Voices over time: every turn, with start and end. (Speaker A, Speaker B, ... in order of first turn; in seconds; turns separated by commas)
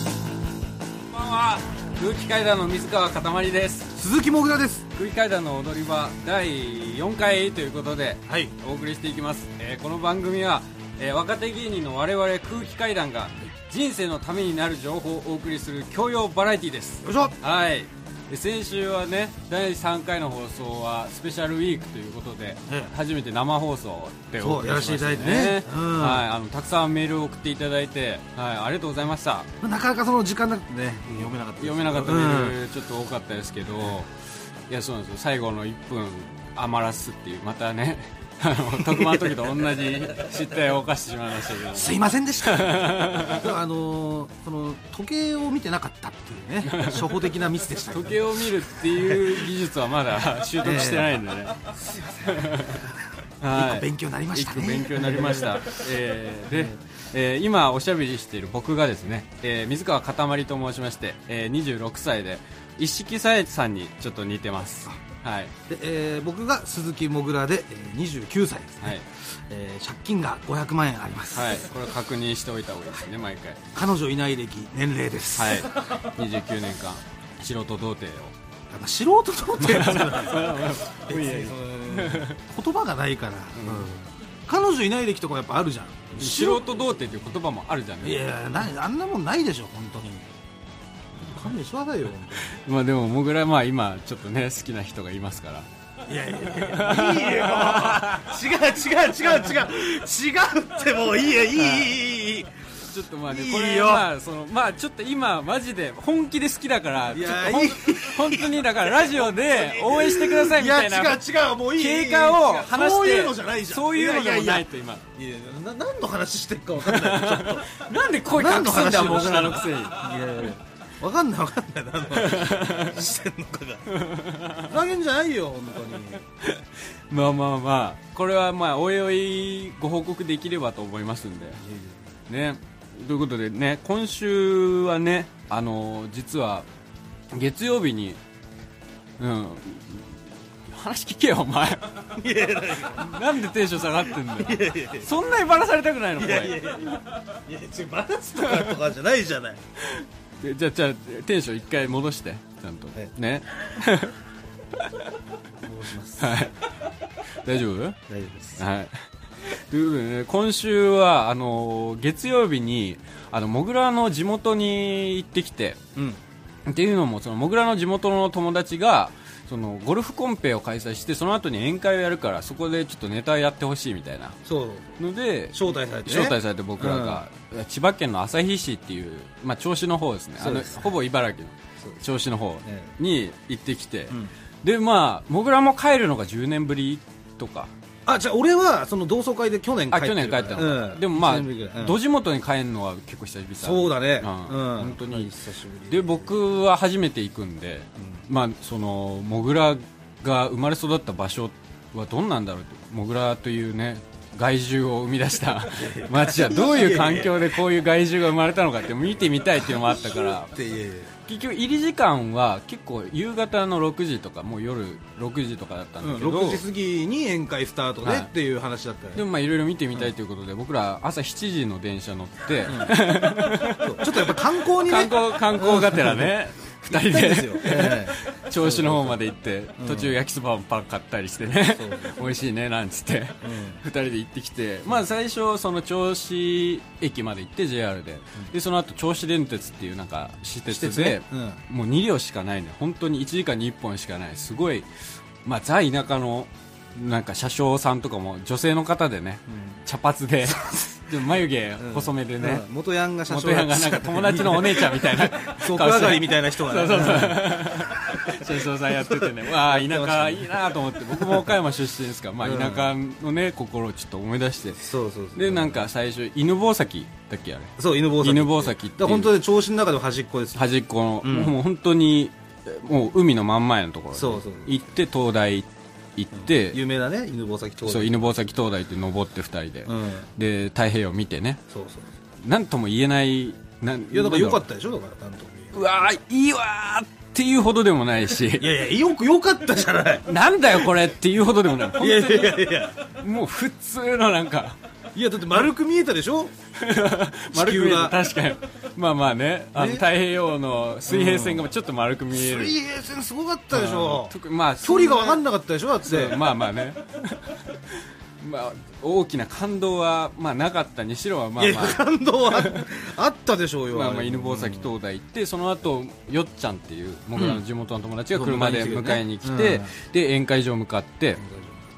Speaker A: 1.1-3.9, Speaker B: 4.0-4.8, Speaker A: 4.9-29.5, Speaker B: 8.3-8.5, Speaker B: 17.0-17.3, Speaker B: 24.4-26.2, Speaker B: 29.6-32.6, Speaker A: 31.2-34.1, Speaker A: 34.7-43.5, Speaker B: 38.8-39.3, Speaker B: 41.7-48.2, Speaker A: 46.6-47.1, Speaker A: 47.9-51.6, Speaker B: 48.9-49.5, Speaker B: 50.6-51.2, Speaker B: 51.8-55.6, Speaker A: 52.2-52.8, Speaker A: 53.4-65.5, Speaker B: 65.7-71.6, Speaker A: 71.3-73.7, Speaker B: 73.7-75.8, Speaker A: 75.3-78.3, Speaker B: 78.7-86.9, Speaker A: 79.6-82.4, Speaker A: 83.5-83.9, Speaker A: 86.2-88.2, Speaker B: 88.0-90.3, Speaker B: 91.3-92.5, Speaker A: 92.5-95.7, Speaker B: 96.0-102.6, Speaker A: 96.5-98.3, Speaker A: 101.5-101.9, Speaker A: 102.8-111.2, Speaker B: 103.2-104.1, Speaker B: 107.1-123.9, Speaker A: 111.7-115.0, Speaker A: 116.8-120.4, Speaker A: 122.1-123.0, Speaker A: 123.9-124.7, Speaker B: 124.6-126.2, Speaker A: 126.4-131.6, Speaker B: 131.6-132.0, Speaker A: 132.3-136.7, Speaker A: 137.3-138.2, Speaker A: 139.2-142.1, Speaker B: 142.1-143.2, Speaker A: 142.8-146.6, Speaker B: 144.4-145.1, Speaker B: 146.2-149.6, Speaker A: 149.8-154.2, Speaker A: 154.8-155.1, Speaker B: 155.6-156.6, Speaker A: 156.2-156.6, Speaker A: 157.4-158.0, Speaker B: 158.1-158.6, Speaker A: 158.6-165.8, Speaker A: 166.7-174.4, Speaker B: 174.4-175.0, Speaker A: 175.0-187.7, Speaker B: 175.5-177.2, Speaker B: 180.4-180.9, Speaker B: 182.6-182.9, Speaker B: 188.1-192.0, Speaker A: 189.9-195.3, Speaker B: 193.6-196.3, Speaker A: 195.9-210.5, Speaker B: 198.0-198.2, Speaker B: 205.6-207.4, Speaker B: 209.6-211.1, Speaker A: 211.2-216.6, Speaker B: 216.0-219.2, Speaker A: 218.0-218.3, Speaker A: 219.1-244.9, Speaker B: 222.7-226.3, Speaker B: 226.9-229.2, Speaker B: 229.8-230.2, Speaker B: 231.7-232.2, Speaker B: 233.4-233.8, Speaker B: 240.7-241.6, Speaker A: 245.4-252.6, Speaker B: 249.5-249.8, Speaker B: 250.5-251.0, Speaker B: 251.8-258.5, Speaker A: 253.3-269.3, Speaker B: 259.1-261.5, Speaker B: 262.4-262.9, Speaker B: 264.8-265.9, Speaker B: 267.8-270.6, Speaker A: 270.5-276.8, Speaker B: 271.2-271.6, Speaker B: 274.1-274.8, Speaker B: 276.4-278.3, Speaker A: 277.9-281.6, Speaker B: 279.9-280.3, Speaker B: 281.7-282.1, Speaker A: 282.4-284.6, Speaker B: 284.1-286.1, Speaker A: 285.7-288.7, Speaker B: 288.5-290.2, Speaker A: 290.2-294.8, Speaker B: 291.9-293.1, Speaker B: 295.1-296.5, Speaker A: 296.8-302.7, Speaker B: 297.5-298.2, Speaker B: 299.7-300.0, Speaker B: 301.1-301.6, Speaker B: 302.3-306.4, Speaker A: 303.7-305.4, Speaker A: 306.1-312.9, Speaker B: 311.6-314.9, Speaker A: 313.9-321.4, Speaker B: 317.3-317.6, Speaker B: 318.3-319.9, Speaker B: 321.4-321.9